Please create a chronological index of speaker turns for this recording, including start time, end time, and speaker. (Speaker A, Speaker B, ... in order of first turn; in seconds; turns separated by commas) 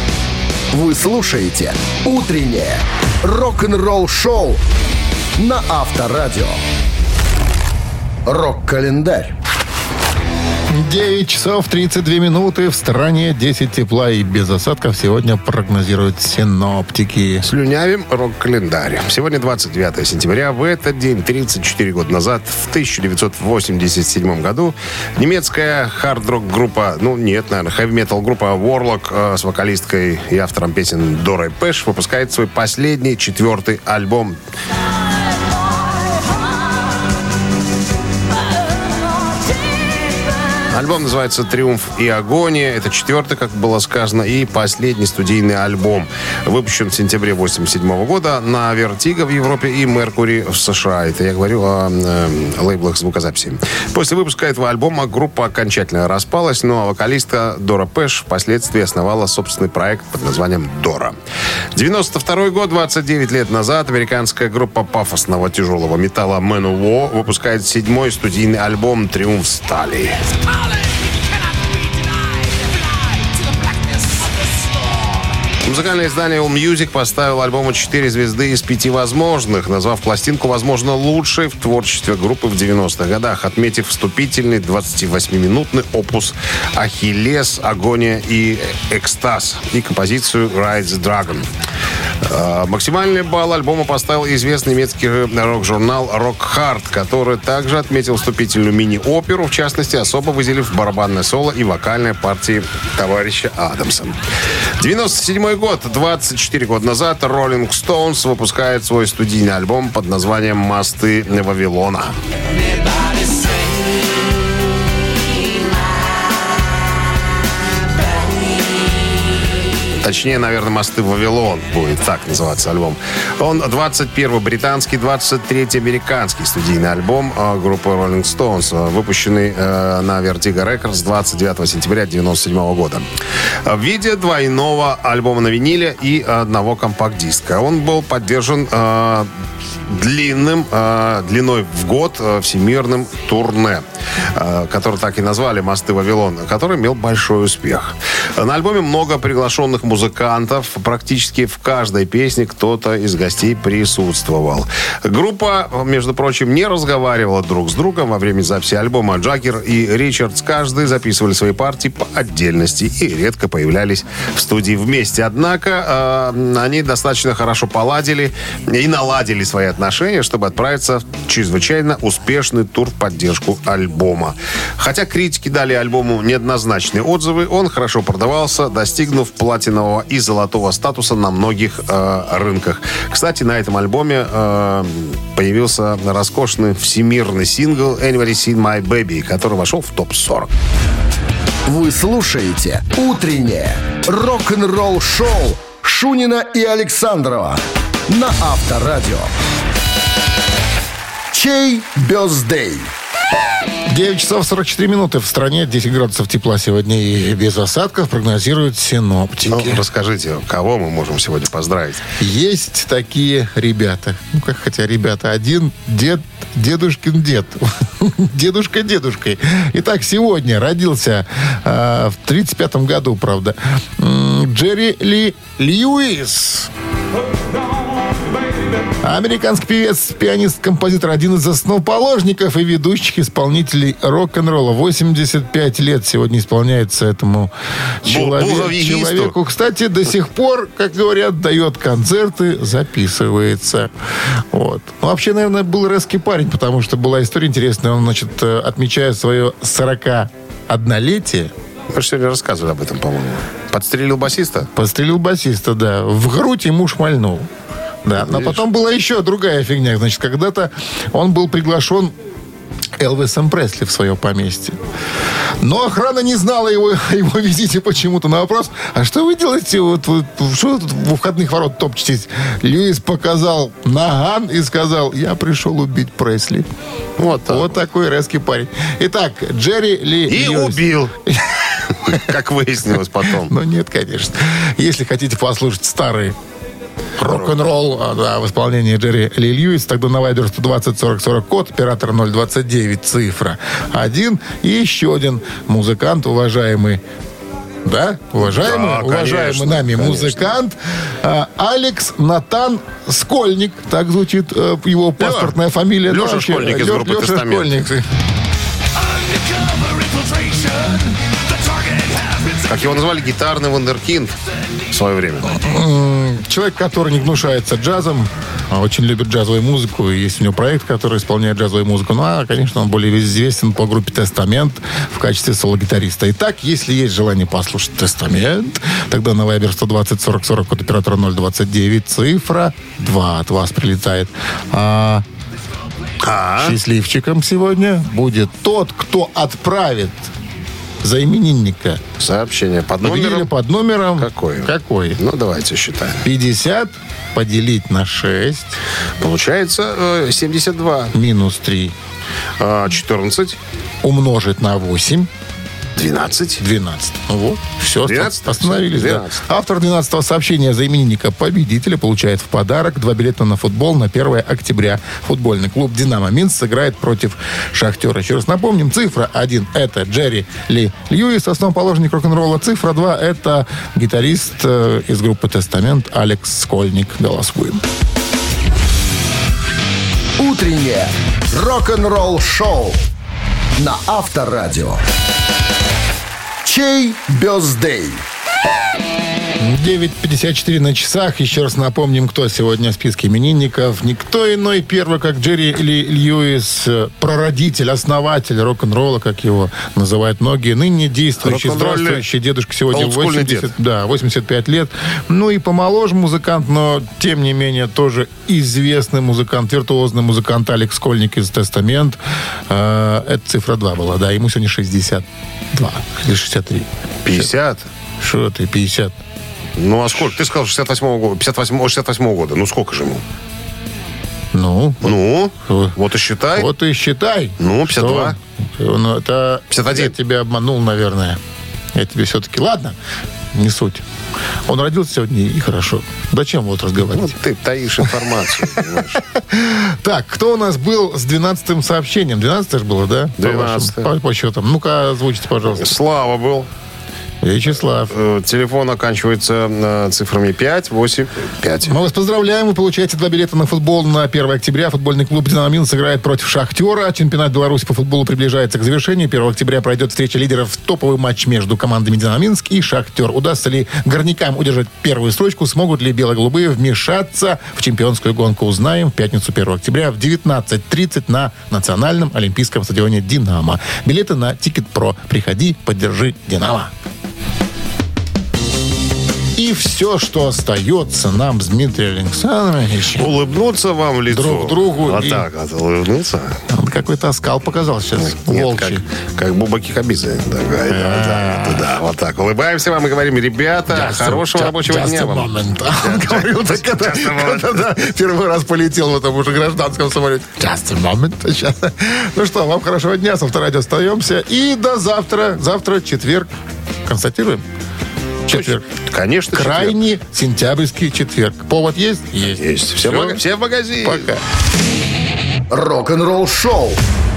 Speaker A: 0.7-4.6, Speaker A: 5.4-6.6, Speaker A: 8.2-9.3, Speaker B: 10.7-17.4, Speaker C: 17.4-34.4, Speaker C: 40.7-61.1, Speaker C: 61.7-70.3, Speaker C: 75.6-91.5, Speaker C: 92.2-104.2, Speaker C: 104.8-112.1, Speaker C: 119.9-133.0, Speaker C: 133.6-139.3, Speaker C: 139.8-143.8, Speaker C: 144.3-190.5, Speaker A: 191.7-199.3, Speaker A: 201.3-202.9, Speaker B: 203.9-209.8, Speaker C: 209.5-212.0, Speaker B: 212.2-226.7, Speaker B: 229.0-243.9, Speaker C: 238.0-239.3, Speaker B: 244.5-251.5, Speaker C: 251.9-254.7, Speaker B: 254.7-257.5, Speaker B: 258.0-262.1, Speaker C: 258.2-258.6, Speaker B: 263.0-264.8, Speaker B: 265.6-276.7, Speaker C: 277.2-277.8, Speaker B: 277.5-282.3, Speaker C: 280.3-281.1, Speaker C: 282.0-283.5, Speaker B: 283.2-286.4, Speaker B: 287.2-297.0, Speaker C: 287.2-287.6, Speaker B: 297.8-308.1, Speaker C: 298.4-300.5, Speaker C: 305.2-305.6, Speaker C: 306.1-307.7, Speaker C: 309.7-310.7, Speaker C: 312.1-314.3, Speaker C: 314.9-315.6, Speaker B: 315.5-335.2, Speaker C: 336.2-336.8, Speaker B: 336.6-340.3, Speaker B: 341.0-342.0, Speaker C: 342.2-343.5, Speaker B: 343.0-345.2, Speaker C: 344.2-346.2, Speaker B: 346.2-348.8, Speaker C: 349.2-351.1, Speaker B: 351.1-351.9, Speaker C: 352.6-353.6, Speaker B: 354.0-355.3, Speaker C: 356.0-356.6, Speaker B: 356.6-377.8, Speaker C: 358.0-359.4, Speaker A: 380.4-383.0, Speaker A: 383.8-385.0, Speaker A: 386.6-388.2, Speaker B: 389.6-417.5, Speaker C: 401.4-402.2, Speaker C: 402.9-403.7, Speaker C: 417.2-417.9, Speaker B: 418.2-419.2, Speaker C: 419.8-423.2, Speaker B: 424.5-425.1, Speaker C: 425.0-426.7, Speaker B: 425.6-426.0, Speaker B: 426.5-431.4, Speaker C: 427.6-428.4, Speaker C: 429.7-430.1, Speaker B: 431.9-432.9, Speaker B: 433.5-434.0, Speaker B: 434.7-437.4, Speaker C: 437.1-439.2, Speaker B: 439.3-445.9, Speaker C: 443.4-444.1, Speaker C: 445.8-446.7, Speaker B: 447.4-448.1, Speaker C: 448.1-451.9, Speaker B: 451.8-476.9, Speaker B: 479.6-483.3, Speaker C: 483.2-486.6, Speaker B: 484.3-485.4, Speaker B: 486.7-489.0, Speaker C: 488.2-497.9, Speaker B: 490.9-491.9, Speaker B: 493.9-506.5, Speaker B: 507.0-507.6, Speaker B: 508.4-508.9, Speaker C: 508.5-510.0, Speaker B: 509.5-513.4, Speaker C: 512.5-514.3, Speaker B: 514.0-514.4, Speaker A: 515.7-517.0